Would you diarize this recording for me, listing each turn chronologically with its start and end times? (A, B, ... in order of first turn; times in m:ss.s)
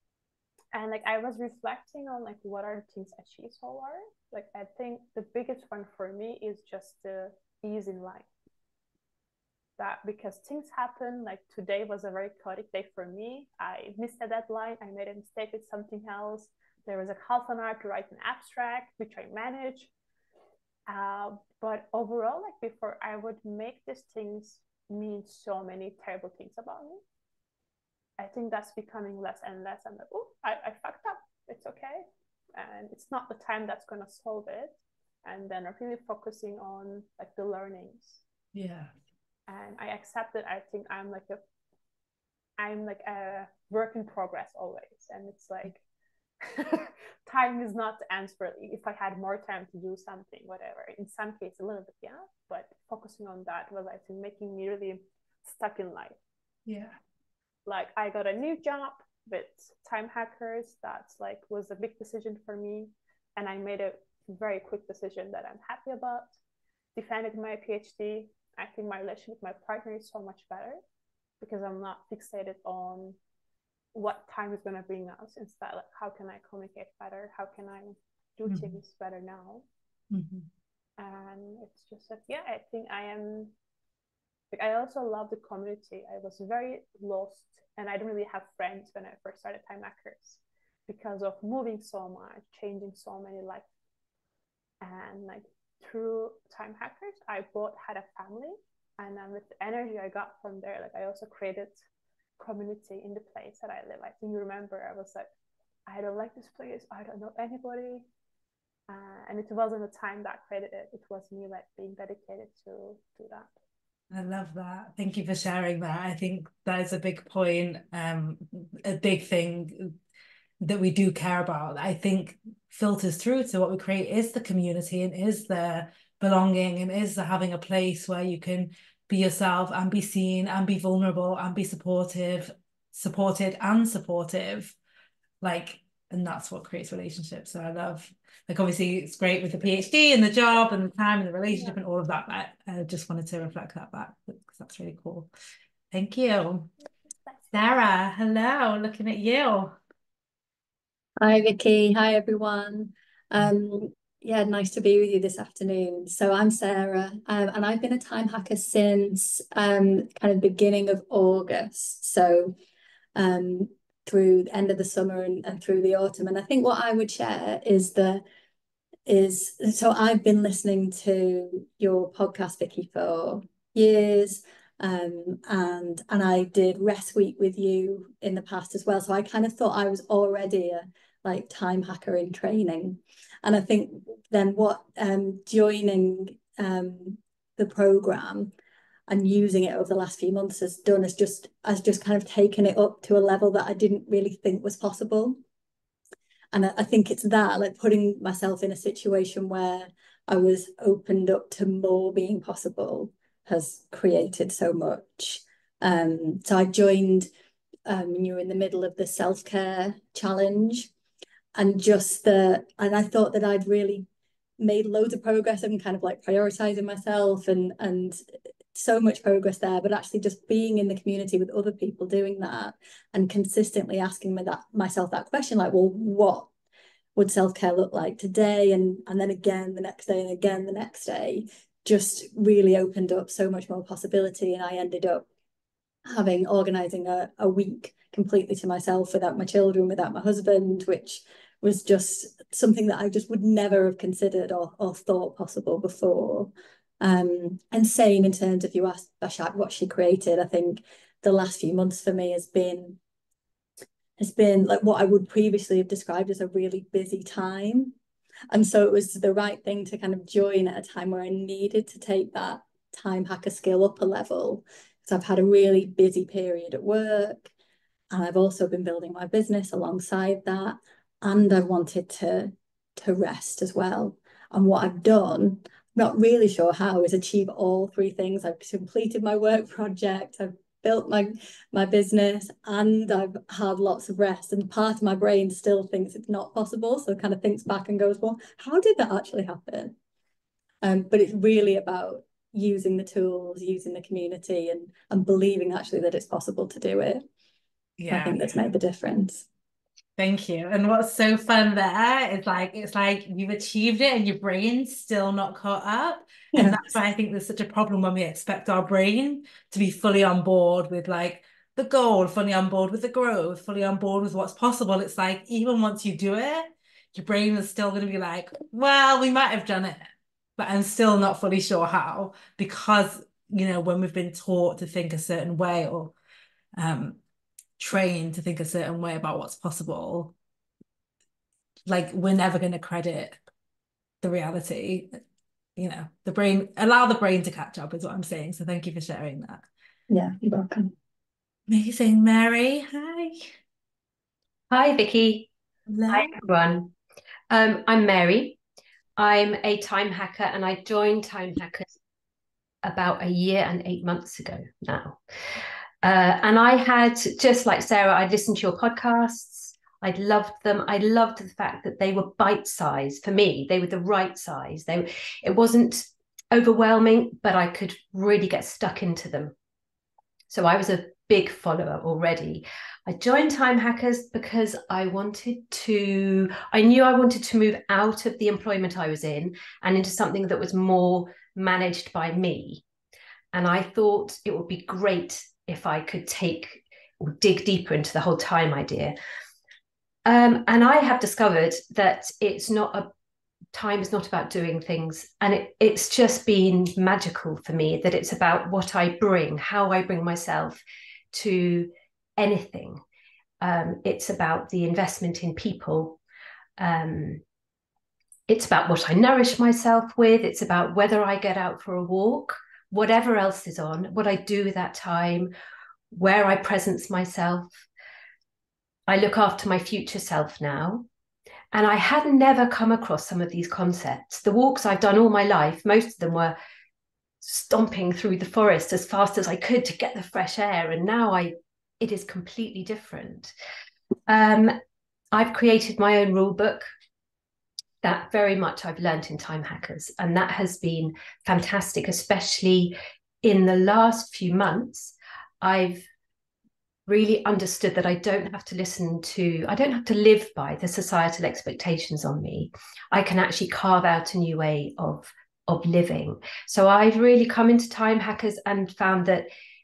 0:00.7-0:08.3 A
0:09.8-0:19.9 A
0:20.9-0:27.0 A
0:28.2-0:34.7 A
0:35.2-0:38.2 A
0:38.6-0:38.9 B
0:39.5-0:41.4 A
0:42.6-0:45.8 A
0:46.4-0:56.2 A
0:56.7-0:57.0 B
0:57.7-1:06.3 A
1:07.0-1:10.8 A
1:11.4-1:13.2 A
1:13.9-1:19.6 A
1:18.5-1:18.8 B
1:20.1-1:20.5 B
1:21.0-1:23.5 A
1:24.5-1:33.6 A
1:34.8-1:41.8 A
1:42.4-1:45.3 A
1:45.9-1:48.0 A
1:48.9-1:53.5 A
1:54.1-2:00.0 B
2:00.6-2:14.7 B
2:15.4-2:25.3 B
2:25.9-2:26.7 B
2:27.5-2:29.8 B
2:31.2-2:42.5 C
2:43.2-2:48.2 C
2:49.0-3:08.5 C
3:09.1-3:15.4 C
3:16.5-3:27.3 C
3:27.8-3:30.9 C
3:31.5-3:34.1 C
3:34.6-3:38.2 C
3:38.7-3:46.5 C
3:47.2-3:55.3 C
3:56.0-4:13.0 C
4:14.2-4:18.0 C
4:18.5-4:27.5 C
4:28.1-4:50.0 C
4:50.8-4:57.2 C
4:58.0-4:58.5 B
4:58.1-4:59.4 C
5:00.2-5:20.0 B
5:06.5-5:06.8 C
5:20.6-5:26.1 B
5:26.8-5:27.2 B
5:27.8-5:30.3 B
5:31.9-5:33.4 B
5:34.2-5:35.2 B
5:35.8-5:39.6 B
5:40.1-5:40.9 C
5:41.7-5:43.5 B
5:44.7-5:45.5 D
5:45.9-5:46.4 B
5:46.1-5:46.9 D
5:47.5-5:48.6 D
5:49.2-5:51.9 D
5:52.8-5:55.2 D
5:56.0-6:09.6 D
6:10.5-6:22.8 D
6:23.5-6:29.1 D
6:30.2-6:33.1 D
6:33.7-6:43.0 D
6:43.6-6:46.2 D
6:46.8-6:47.4 D
6:48.5-6:55.5 D
6:56.1-6:57.8 D
6:59.1-7:01.1 D
7:01.7-7:06.6 D
7:07.4-7:13.5 D
7:14.3-7:14.8 D
7:15.3-7:16.9 D
7:18.0-7:26.1 D
7:27.1-7:39.5 D